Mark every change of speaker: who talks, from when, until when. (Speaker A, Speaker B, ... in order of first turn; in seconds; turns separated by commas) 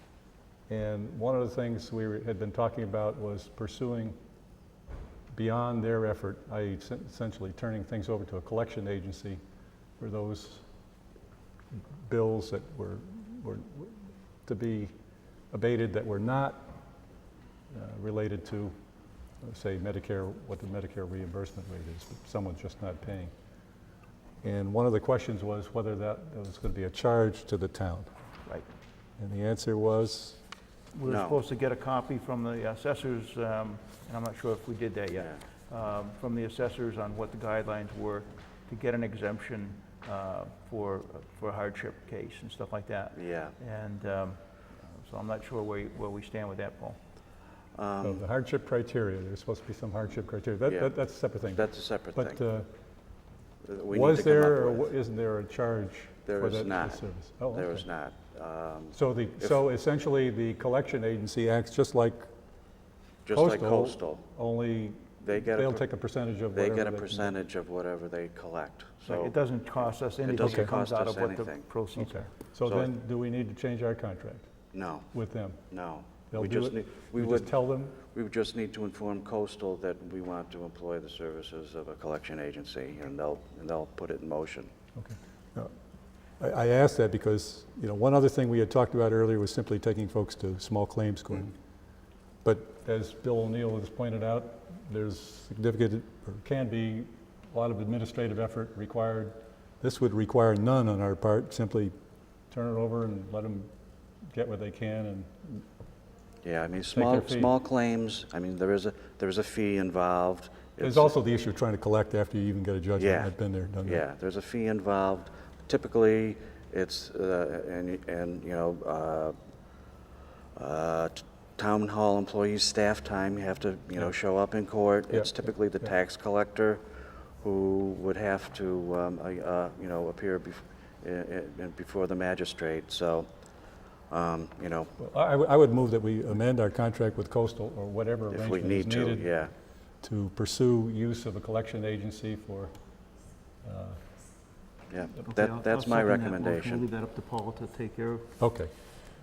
Speaker A: 0.7-4.2, Speaker A: 5.3-9.4, Speaker A: 10.0-10.6, Speaker A: 11.9-14.9, Speaker A: 15.5-16.7, Speaker A: 17.7-18.7, Speaker A: 19.4-23.3, Speaker A: 24.4-28.1, Speaker A: 29.2-30.4, Speaker B: 30.9-47.0, Speaker C: 31.0-31.4, Speaker C: 43.1-43.5, Speaker C: 47.7-48.2, Speaker A: 48.0-52.7, Speaker C: 50.7-50.9, Speaker C: 51.5-52.4, Speaker C: 53.6-54.9, Speaker A: 53.9-57.8, Speaker C: 56.2-59.6, Speaker A: 58.9-62.3, Speaker C: 63.2-64.2, Speaker A: 63.3-67.3, Speaker C: 65.2-65.8, Speaker C: 66.5-71.7, Speaker B: 69.0-72.3, Speaker A: 70.3-70.7, Speaker A: 72.0-74.5, Speaker C: 72.6-72.9, Speaker C: 74.7-75.1, Speaker A: 75.1-75.6, Speaker C: 75.7-84.7, Speaker A: 76.3-78.0, Speaker A: 85.0-85.7, Speaker A: 86.4-91.5, Speaker A: 92.4-101.9, Speaker A: 102.5-103.7, Speaker A: 104.3-105.6, Speaker C: 106.4-111.1, Speaker A: 106.9-107.5, Speaker A: 110.8-114.0, Speaker C: 113.0-119.3, Speaker C: 120.5-126.8, Speaker C: 127.4-133.3, Speaker C: 134.1-134.9, Speaker A: 135.0-139.3, Speaker C: 138.3-139.5, Speaker A: 140.0-142.7, Speaker A: 143.6-144.0, Speaker C: 144.9-146.9, Speaker B: 145.2-148.3, Speaker A: 148.4-148.7